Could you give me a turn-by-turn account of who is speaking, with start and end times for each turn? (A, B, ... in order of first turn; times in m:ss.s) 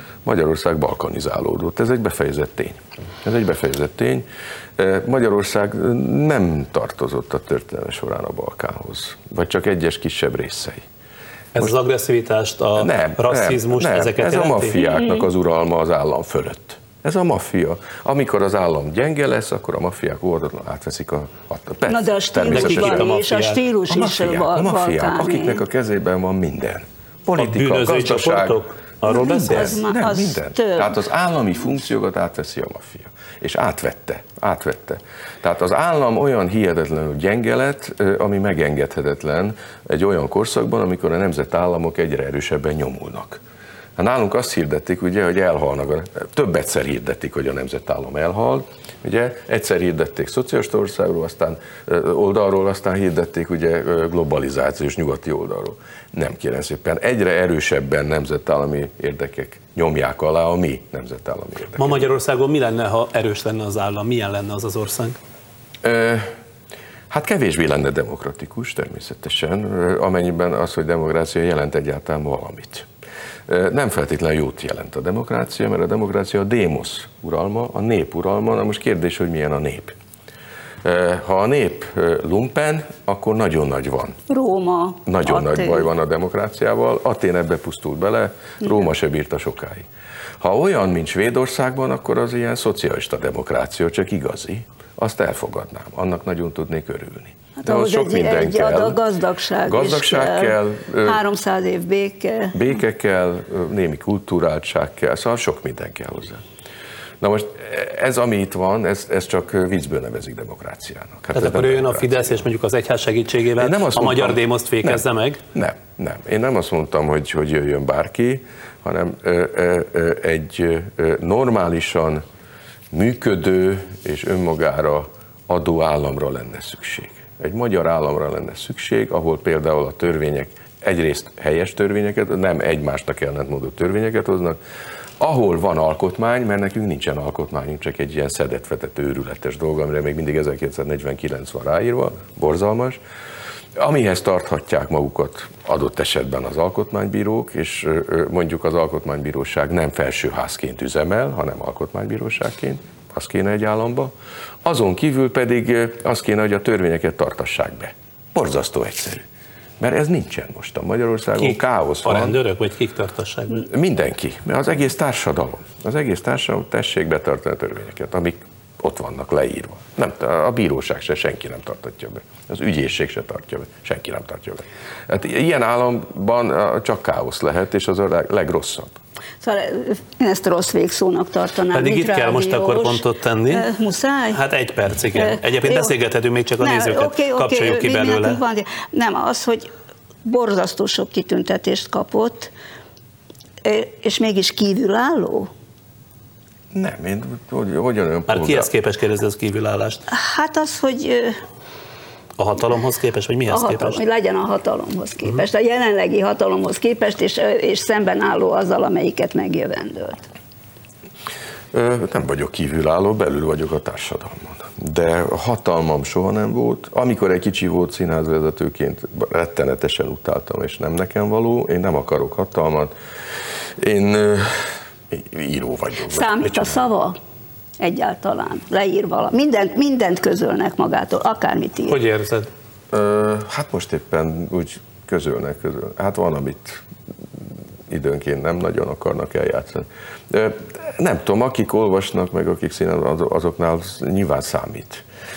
0:00.2-0:04.2 A
0:04.8-0:10.8 A
0:11.6-0:14.8 B
0:12.8-0:23.2 A
0:15.0-0:15.2 C
0:21.9-0:25.6 C
0:22.5-0:23.6 B
0:23.9-0:43.4 A
0:27.4-0:29.7 B
0:29.0-0:30.9 C
0:44.0-1:02.1 A
1:01.8-1:05.2 B
1:05.8-1:06.3 A
1:07.1-1:12.9 A
1:13.5-1:19.9 A
1:20.8-1:24.2 A
1:24.3-1:25.9 C
1:25.1-1:29.8 A
1:30.4-1:39.0 A
1:37.6-1:42.8 C
1:39.7-1:41.2 A
1:42.5-1:46.4 A
1:47.2-1:52.5 A
1:51.4-1:55.4 B
1:53.6-2:02.2 A
2:02.9-2:14.6 A
2:15.2-2:23.0 A
2:23.8-2:34.1 A
2:34.6-2:39.2 A
2:39.8-2:42.4 A
2:41.4-2:43.6 B
2:43.5-2:59.0 A
2:59.4-3:04.4 C
3:01.7-3:03.7 B
3:04.3-3:08.4 B
3:05.2-3:05.9 C
3:06.6-3:09.7 C
3:10.2-3:12.5 C
3:13.6-3:15.5 C
3:16.7-3:18.7 A
3:18.3-3:20.0 B
3:20.1-3:21.4 C
3:22.4-3:24.0 B
3:23.5-3:30.3 C
3:31.7-3:42.9 A
3:43.6-3:46.8 A
3:46.1-3:47.2 C
3:47.8-3:52.0 C
3:51.9-3:52.5 B
3:52.9-3:56.8 A
3:57.4-4:05.0 A